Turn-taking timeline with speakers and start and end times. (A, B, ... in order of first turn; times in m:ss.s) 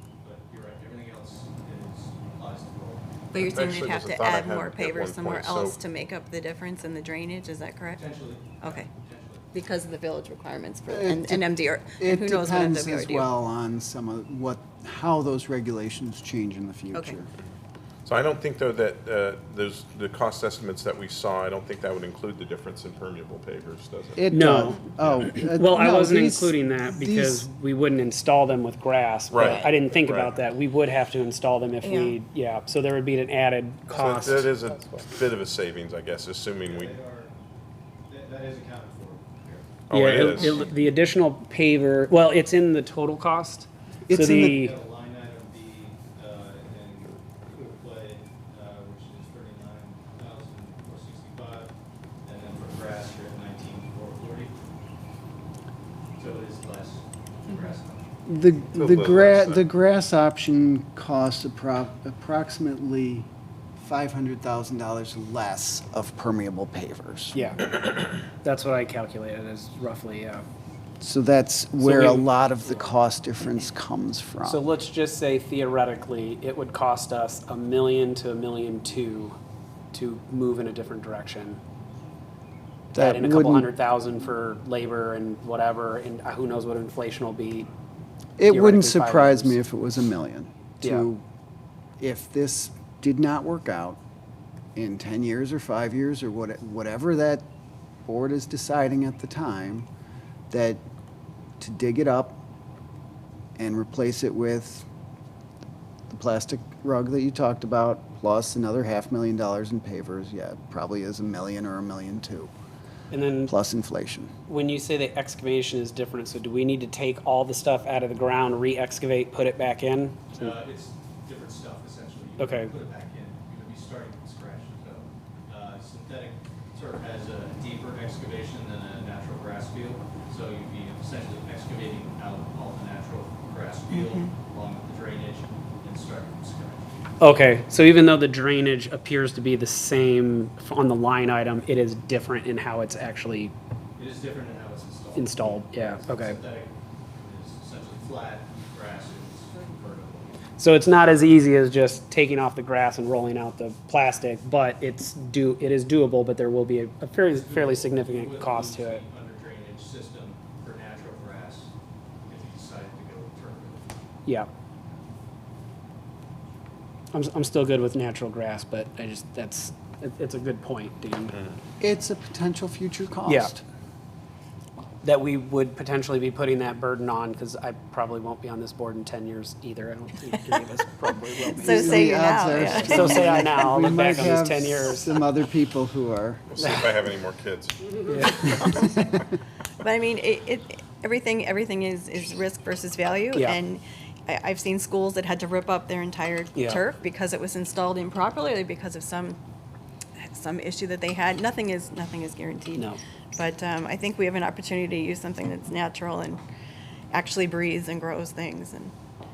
0:00.2-0:03.0 A
0:03.3-0:08.0 B
0:03.4-0:05.8 C
0:07.9-0:09.5 A
0:08.6-0:08.9 B
0:09.5-0:13.3 B
0:10.9-0:17.3 D
0:18.0-0:24.3 C
0:24.2-0:27.4 D
0:24.3-0:34.5 E
0:25.0-0:25.3 C
0:29.3-0:30.3 C
0:29.4-0:29.7 B
0:31.8-0:32.1 B
0:33.9-0:37.0 C
0:36.7-0:37.3 A
0:38.1-0:40.6 A
0:39.9-0:40.6 C
0:39.9-0:44.8 E
0:44.1-0:44.6 D
0:44.4-0:51.7 A
0:52.2-0:54.6 A
0:56.2-0:58.2 A
0:58.2-1:07.4 D
0:58.7-0:59.7 C
1:07.3-1:10.4 E
1:11.0-1:14.6 D
1:11.8-1:12.9 E
1:14.4-1:19.4 E
1:19.9-1:21.6 E
1:22.9-1:23.7 D
1:22.9-1:27.7 E
1:28.4-1:31.2 D
1:28.5-1:29.6 E
1:30.8-1:31.1 E
1:32.0-1:34.0 D
1:34.8-1:37.4 D
1:38.0-1:39.9 D
1:40.5-1:40.8 D
1:41.6-1:42.4 D
1:43.6-1:44.8 D
1:46.1-1:52.5 D
1:53.1-1:53.5 E
1:53.4-1:54.3 D
1:54.5-2:00.5 E
2:00.3-2:17.1 A
2:02.4-2:02.7 E
2:13.9-2:14.3 B
2:17.2-2:23.5 E
2:24.0-2:30.4 A
2:25.2-2:26.4 E
2:30.6-2:39.0 E
2:37.3-2:41.7 A
2:42.2-2:44.0 A
2:47.1-2:51.4 E
2:51.3-2:51.6 C
2:51.8-2:53.6 D
2:53.3-2:53.5 E
2:55.0-3:05.1 E
3:01.4-3:06.4 D
3:01.5-3:03.7 B
3:06.5-3:08.9 C
3:06.6-3:06.9 E
3:08.1-3:08.5 E
3:09.8-3:19.4 B
3:13.3-3:13.6 E
3:16.5-3:16.8 E
3:20.2-3:26.4 B
3:27.1-3:28.9 B